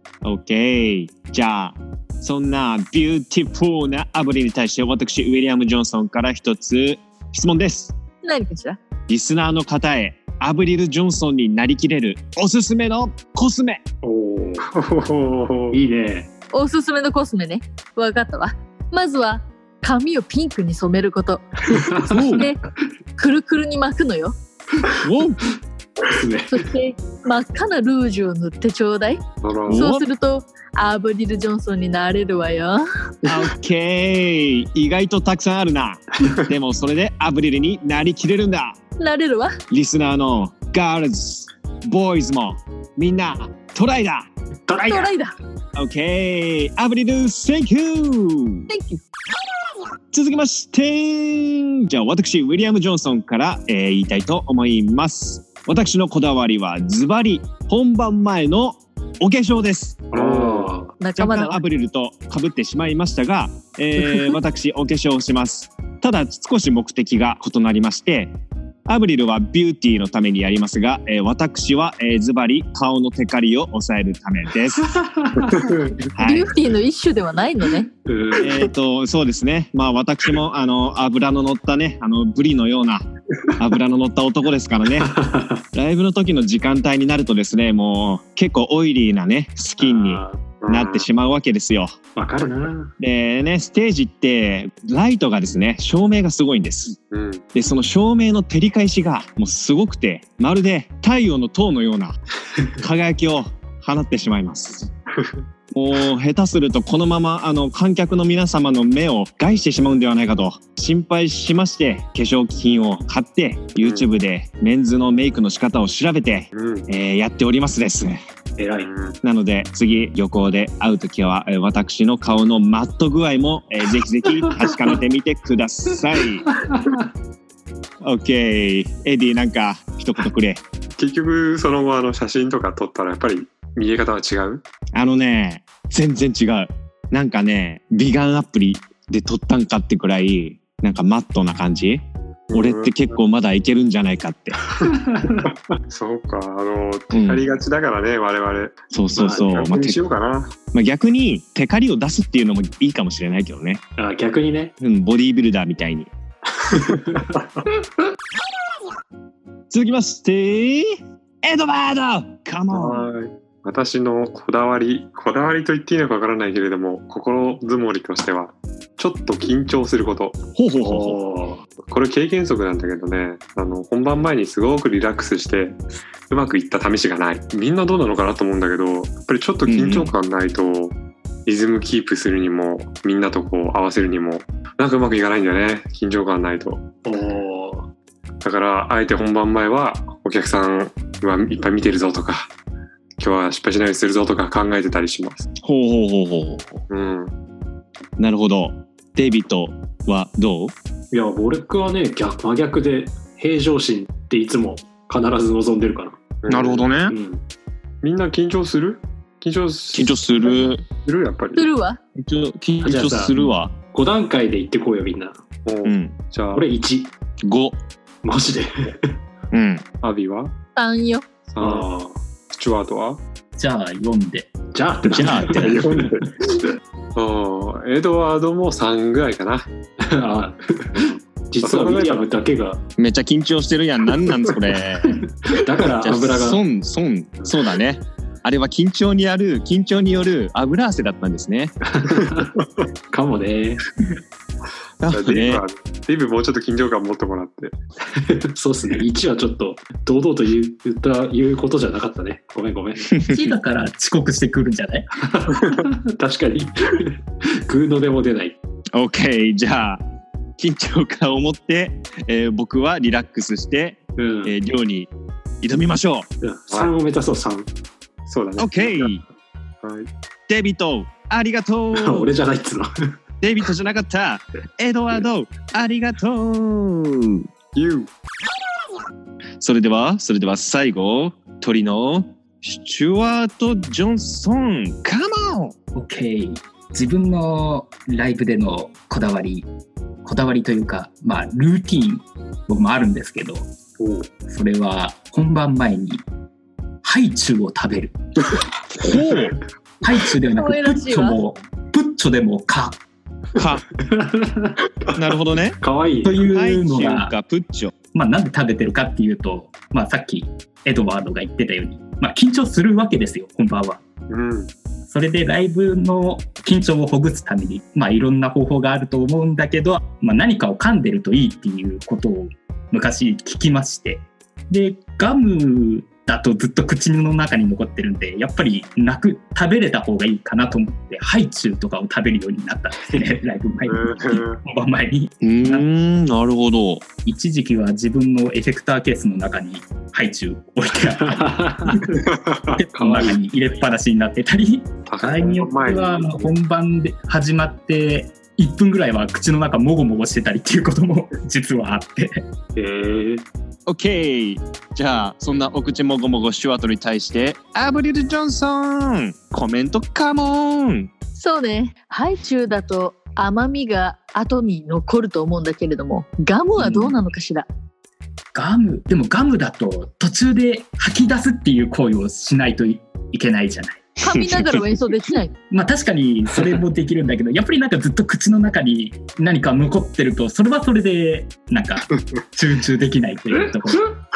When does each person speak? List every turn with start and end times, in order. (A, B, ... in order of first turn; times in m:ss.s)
0:00.2-0:08.0 A
0:08.2-0:08.8 B
0:09.1-0:13.8 A
0:14.0-0:14.6 C
0:14.6-0:15.8 D
0:15.7-0:16.3 C
0:16.5-0:21.8 B
0:21.7-0:22.5 C
0:22.0-0:22.5 A
0:22.4-0:22.6 B
0:23.2-0:24.4 B
0:25.0-0:25.5 A
0:26.1-0:26.6 C
0:26.5-0:32.9 B
0:29.4-0:29.9 D
0:29.7-0:30.1 A
0:33.3-0:38.8 A
0:39.0-0:39.5 B
0:39.7-0:44.3 A
0:44.7-0:45.1 C
0:44.8-0:45.4 B
0:45.8-0:48.7 A
0:48.7-0:49.0 B
0:50.1-1:00.2 A
1:00.1-1:01.0 C
1:00.2-1:00.7 D
1:01.0-1:01.6 B
1:01.2-1:14.9 A
1:14.9-1:15.5 C
1:15.4-1:16.0 D
1:16.2-1:16.5 A
1:16.2-1:17.9 B
1:18.1-1:18.7 C
1:18.4-1:23.0 A
1:23.6-1:25.1 A
1:25.0-1:25.6 C
1:25.7-1:32.4 A
1:29.8-1:30.5 C
1:30.6-1:31.1 D
1:32.2-1:32.9 C
1:33.0-1:37.0 A
1:37.1-1:37.4 D
1:37.6-1:42.2 A
1:42.8-1:44.9 A
1:45.7-1:58.2 A
1:53.8-1:54.1 D
1:56.5-1:56.9 D
1:58.6-1:58.9 C
1:58.8-1:59.2 D
1:59.2-2:06.4 A
2:06.5-2:07.0 C
2:08.0-2:10.6 A
2:11.0-2:14.6 D
2:15.0-2:24.6 A
2:22.5-2:23.2 D
2:24.9-2:25.5 C
2:25.4-2:30.6 D
2:27.1-2:27.5 A
2:28.9-2:30.1 A
2:29.2-2:29.6 C
2:30.7-2:33.8 A
2:34.0-2:34.7 C
2:34.8-2:36.1 A
2:36.9-2:37.2 C
2:39.7-2:43.1 A
2:42.7-2:50.4 D
2:50.6-2:51.2 A
2:50.8-2:51.6 C
2:51.8-3:06.9 D
2:59.7-3:00.2 A
3:07.0-3:07.9 C
3:08.4-3:12.5 D
3:13.2-3:15.4 D
3:15.6-3:16.8 A
3:16.9-3:17.3 D
3:18.2-3:20.7 A
3:21.1-3:26.2 C
3:26.4-3:26.9 D
3:26.5-3:27.2 A
3:27.1-3:27.4 C
3:28.0-3:31.7 D
3:29.9-3:30.8 A
3:31.6-3:32.0 B
3:32.2-3:33.7 A
3:32.8-3:35.4 C
3:35.6-3:36.7 D
3:35.8-3:36.2 A
3:36.5-3:37.1 C
3:37.4-3:37.8 A
3:38.2-3:39.2 C
3:39.5-3:39.8 A
3:40.0-3:40.6 D
3:40.8-3:41.2 B
3:41.5-3:41.9 D
3:41.6-3:42.2 C
3:42.6-3:43.2 D
3:43.6-3:44.5 E
3:44.7-3:46.2 C
3:45.0-3:45.9 E
3:45.1-3:45.7 A
3:45.5-3:46.6 D
3:47.2-3:49.7 D
3:50.0-3:52.8 C
3:51.0-3:52.3 D
3:53.0-3:55.2 A
3:55.0-3:56.6 C
3:55.9-4:01.7 A
4:01.9-4:02.5 C
4:02.6-4:02.9 D
4:03.1-4:03.9 C
4:05.0-4:05.6 A
4:05.1-4:07.8 D
4:08.1-4:13.1 C
4:13.1-4:13.5 A
4:13.3-4:15.1 E
4:15.2-4:18.6 C
4:19.0-4:20.0 A
4:20.6-4:25.1 A
4:24.2-4:24.5 C
4:25.6-4:26.3 A
4:26.4-4:27.7 C
4:28.3-4:29.2 D
4:28.6-4:29.2 A
4:29.8-4:30.1 D
4:30.5-4:32.3 A
4:31.9-4:33.1 C
4:33.4-4:37.5 A
4:37.8-4:38.1 D
4:39.6-4:45.8 A
4:46.0-4:49.7 E
4:50.2-4:53.7 E
4:54.0-4:54.3 C
4:54.5-4:56.2 E
4:57.0-4:58.2 E
4:59.0-4:59.6 A
5:00.0-5:03.0 E
5:00.5-5:01.4 B
5:03.6-5:03.8 A
5:04.0-5:04.8 C
5:05.2-5:05.8 A
5:05.8-5:06.4 C
5:06.2-5:07.3 E
5:06.5-5:07.9 A
5:08.1-5:14.0 E
5:14.3-5:14.7 D
5:15.1-5:35.9 E
5:33.8-5:34.6 D
5:35.4-5:37.0 A
5:37.2-5:52.4 E
5:41.3-5:42.0 C
5:42.2-5:43.3 D
5:43.0-5:43.4 C
5:45.0-5:46.5 D
5:52.8-5:53.4 C
5:53.9-6:01.1 A
6:01.4-6:07.7 B
6:06.8-6:07.2 E
6:08.5-6:14.1 E
6:14.2-6:15.5 B
6:14.2-6:15.0 A
6:15.7-6:24.2 E
6:22.1-6:22.4 D